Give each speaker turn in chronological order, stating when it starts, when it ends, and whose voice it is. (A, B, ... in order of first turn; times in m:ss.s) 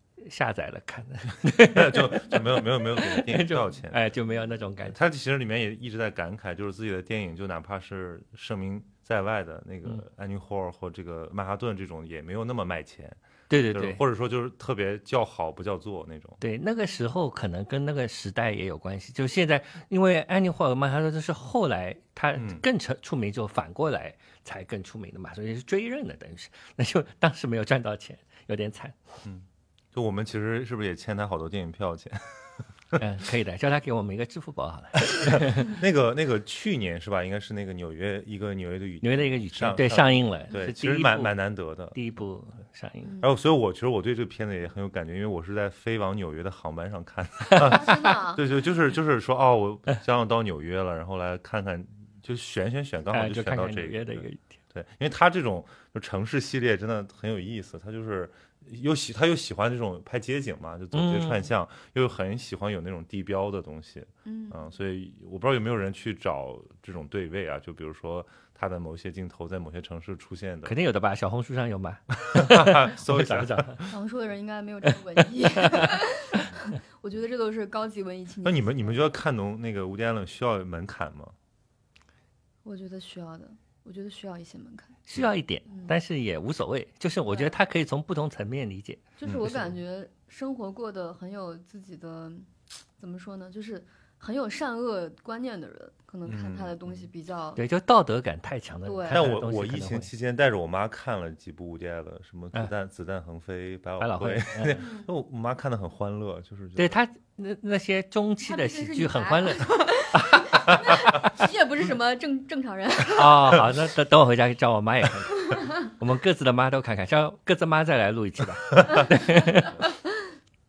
0:00.2-0:05.0 A
0:01.7-0:04.1 B
0:04.8-0:16.4 B
0:13.5-0:14.0 A
0:16.4-0:29.0 A
0:22.4-0:22.6 B
0:29.2-0:33.0 B
0:32.9-0:35.7 A
0:35.2-0:42.0 B
0:39.0-0:41.4 A
0:41.9-0:43.1 A
0:43.0-0:43.3 C
0:43.2-1:10.8 B
0:47.5-0:48.4 C
0:53.1-0:54.4 A
1:00.9-1:01.5 A
1:04.2-1:04.7 C
1:10.6-1:13.9 A
1:12.2-1:13.9 B
1:13.9-1:19.1 C
1:15.6-1:16.4 A
1:18.4-1:21.3 B
1:22.6-1:25.0 C
1:25.0-1:29.7 A
1:25.7-1:26.0 C
1:27.3-1:27.6 C
1:29.2-1:37.6 C
1:29.2-1:29.6 B
1:36.2-1:37.0 B
1:37.6-1:40.1 A
1:38.8-1:39.2 C
1:39.1-1:47.0 B
1:44.0-1:44.8 A
1:44.8-1:45.1 C
1:46.8-1:51.2 A
1:48.4-1:53.5 C
1:53.1-1:59.8 A
1:55.4-1:55.8 C